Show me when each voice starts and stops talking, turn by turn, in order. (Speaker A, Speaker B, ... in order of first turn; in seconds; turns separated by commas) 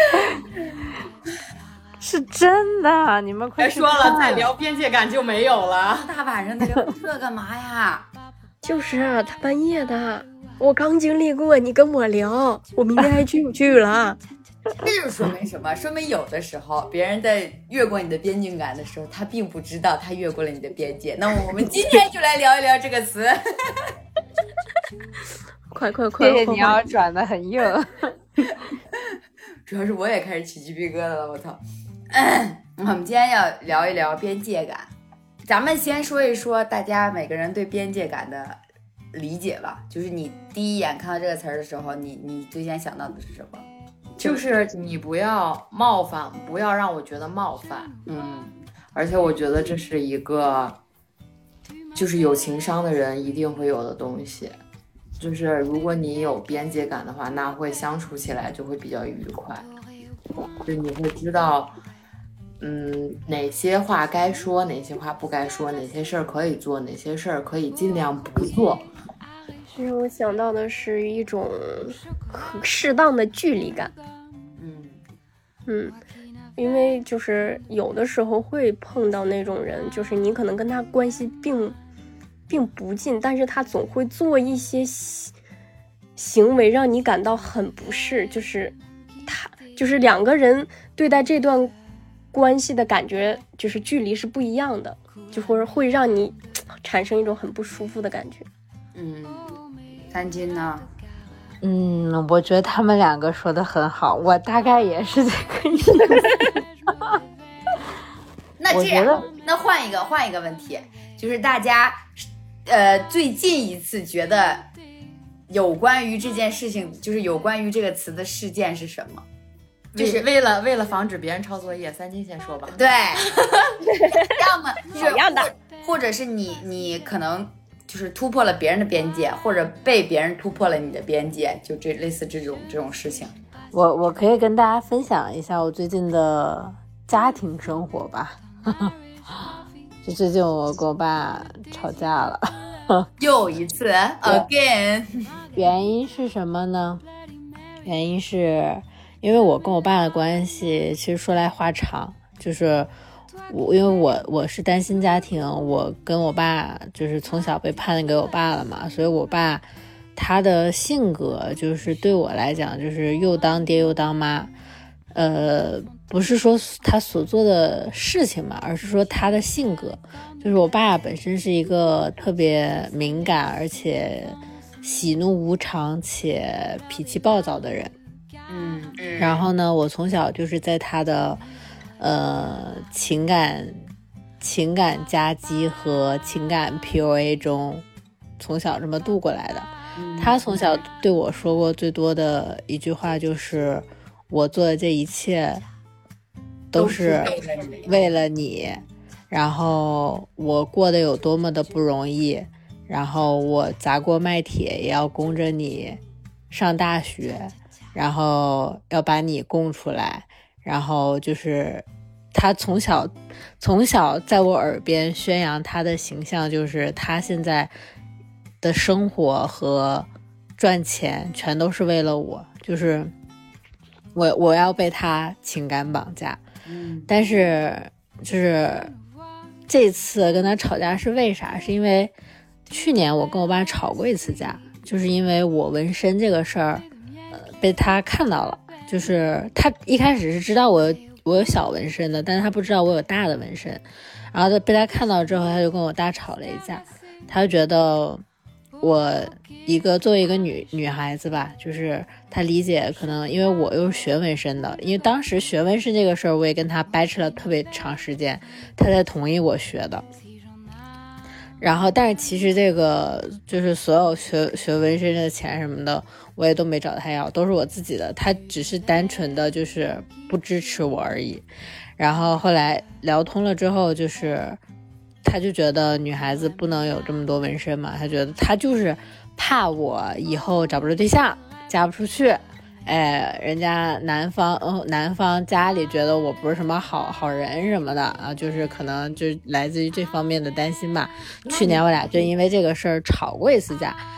Speaker A: 2.0-4.5, Speaker B: 3.6-6.1, Speaker C: 6.1-8.1, Speaker D: 8.6-14.2, Speaker C: 14.8-23.9, Speaker D: 25.7-26.8, Speaker A: 26.2-28.6, Speaker C: 29.7-34.9, Speaker C: 35.4-38.6, Speaker C: 39.1-43.6, Speaker C: 44.2-44.4, Speaker B: 44.2-47.9, Speaker C: 48.1-48.5, Speaker B: 48.9-50.8, Speaker B: 51.9-54.6, Speaker B: 55.2-59.6, Speaker B: 60.6-61.7, Speaker B: 62.6-68.9, Speaker D: 69.7-73.9, Speaker C: 74.6-75.0, Speaker D: 75.7-76.0, Speaker D: 76.6-81.8, Speaker D: 82.5-85.3, Speaker D: 86.2-88.7, Speaker D: 89.2-91.7, Speaker D: 92.3-98.5, Speaker C: 99.0-99.6, Speaker C: 100.1-100.8, Speaker A: 101.6-106.4, Speaker C: 108.6-114.7, Speaker A: 108.7-109.3, Speaker C: 115.5-119.2, Speaker B: 119.9-123.7, Speaker C: 120.0-120.2, Speaker C: 122.7-123.4, Speaker D: 123.8-124.3, Speaker C: 124.2-133.3, Speaker D: 124.9-125.5, Speaker A: 133.7-138.9, Speaker A: 140.0-143.1, Speaker C: 143.2-145.4, Speaker A: 145.5-147.0, Speaker A: 147.8-152.9, Speaker A: 153.5-159.6, Speaker A: 160.2-164.5, Speaker A: 165.1-177.9, Speaker C: 178.5-179.4, Speaker A: 179.2-181.4, Speaker A: 182.0-183.9, Speaker A: 184.4-187.8, Speaker A: 188.4-195.6, Speaker C: 189.9-190.8, Speaker A: 196.7-206.0, Speaker C: 196.7-198.0, Speaker A: 206.5-217.7, Speaker A: 218.6-223.1, Speaker A: 224.1-226.4, Speaker C: 226.7-227.1, Speaker A: 227.1-228.9, Speaker A: 229.7-232.1, Speaker A: 232.7-248.2, Speaker A: 248.8-260.0, Speaker A: 261.6-271.4, Speaker A: 272.0-274.6, Speaker A: 275.2-294.0, Speaker B: 291.4-291.9